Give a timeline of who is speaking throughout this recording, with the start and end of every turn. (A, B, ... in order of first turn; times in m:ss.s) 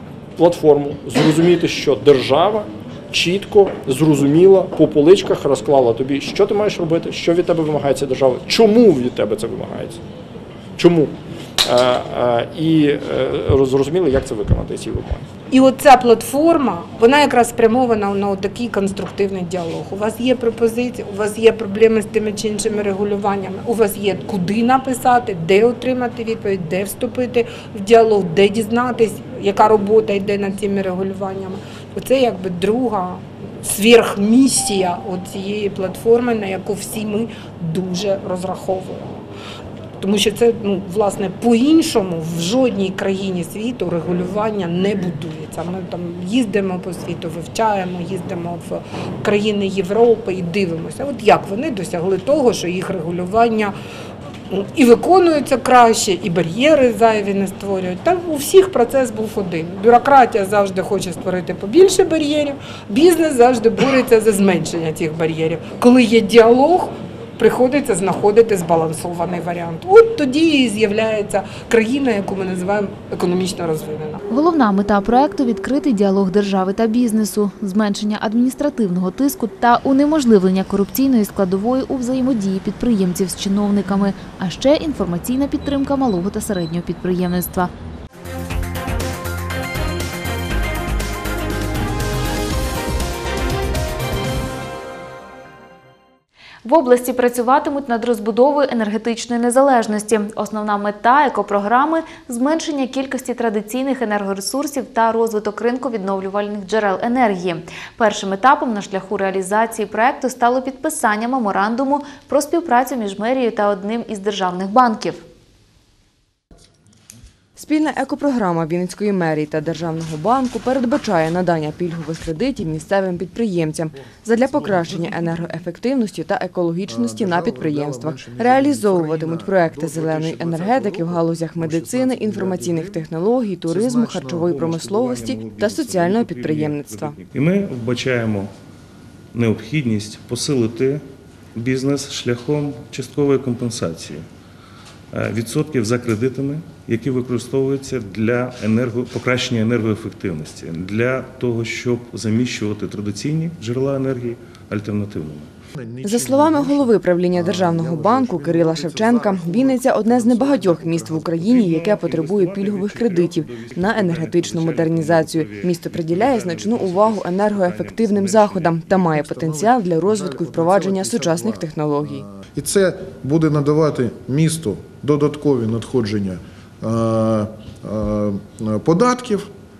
0:00.4-0:10.0 A
0:10.8-0:15.2 A
0:15.5-0:39.2 B
0:40.0-0:53.7 B
0:54.5-1:14.2 B
1:14.3-1:27.7 C
1:36.6-1:55.2 C
1:57.6-2:17.1 D
2:04.0-2:05.6 E
2:06.8-2:16.8 E
2:16.5-2:18.5 F
2:19.3-2:21.0 F
2:21.5-2:24.3 F
2:25.1-2:35.5 F
2:35.8-2:41.5 E
2:36.0-2:52.2 D
2:41.3-2:49.0 F
2:48.8-2:59.5 E